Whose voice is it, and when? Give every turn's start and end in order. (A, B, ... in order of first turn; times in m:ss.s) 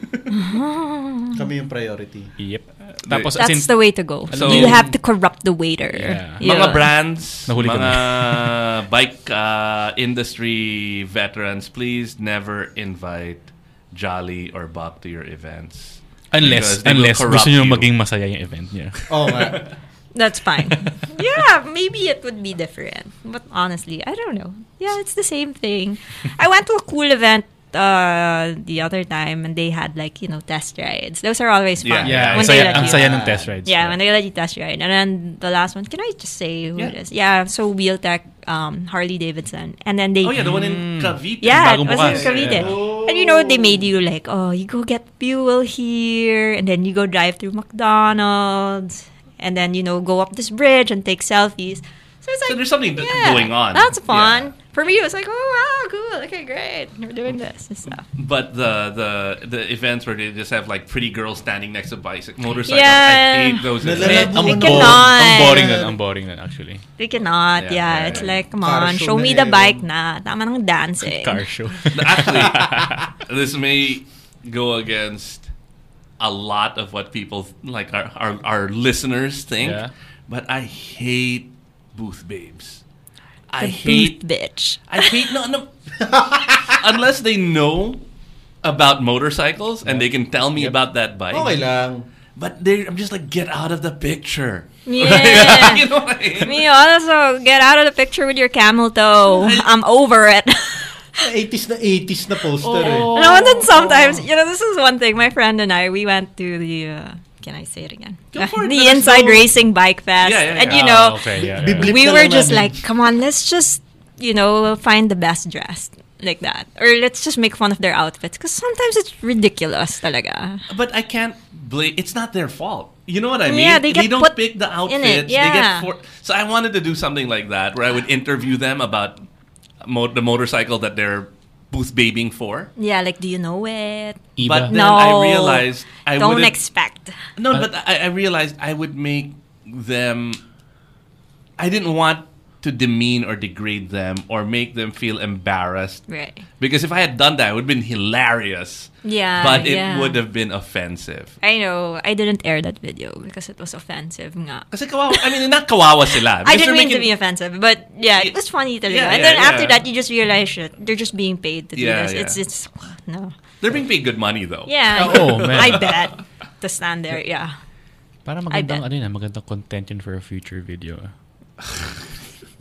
0:00.3-0:01.4 A
0:01.4-0:02.3 B
0:02.4-0:05.0 C
0:03.0-0:03.4 D
0:03.4-0:06.9 A
0:04.3-0:04.8 D
0:06.0-0:06.4 C
0:06.4-0:17.9 D
0:07.5-0:08.6 C
0:16.3-0:19.4 C
0:19.1-0:19.7 B
0:19.4-0:19.7 D
0:20.1-0:40.5 A
0:31.8-0:33.2 D
0:32.0-0:34.0 C
0:40.2-0:42.8 D
0:40.4-0:42.7 C
0:41.4-0:58.0 A
0:42.5-0:43.8 B
0:52.5-0:54.5 D
0:58.0-1:04.7 D
1:02.7-1:05.8 A
1:03.8-1:05.9 B
1:04.0-1:06.8 C
1:07.0-1:11.4 A
1:07.6-1:08.4 D
1:08.6-1:09.9 B
1:11.0-1:13.1 C
1:11.9-1:15.5 D
1:16.2-1:22.8 D
1:19.6-1:19.9 C
1:23.5-1:24.2 D
1:23.6-1:25.3 A
1:24.9-1:28.0 D
1:26.0-1:26.6 B
1:28.6-1:31.6 D
1:29.9-1:30.7 C
1:31.3-1:32.1 B
1:32.4-1:36.6 D
1:34.9-1:41.1 A
1:39.3-1:39.7 D
1:41.2-1:43.5 B
1:42.6-1:44.2 D
1:43.1-2:00.7 A
1:48.3-1:49.5 D
1:50.2-1:50.8 D
1:50.6-1:51.9 C
1:51.4-1:52.8 B
2:00.7-2:09.2 D
2:03.5-2:05.9 A
2:09.8-2:12.7 D
2:12.8-2:17.2 A
2:14.4-2:14.7 C
2:14.4-2:16.5 D
2:17.4-2:20.4 D
2:21.6-2:26.1 D
2:26.1-2:26.4 A
2:26.6-2:31.4 D
2:29.0-2:30.2 A
2:31.4-2:35.3 A
2:34.7-2:37.1 D
2:36.4-2:43.4 A
2:38.9-2:39.8 D
2:41.7-2:42.4 D
2:43.6-2:46.1 D
2:44.7-2:47.5 A
2:44.9-2:45.9 C
2:48.2-2:51.1 C
2:48.5-2:48.8 A
2:51.6-2:52.0 D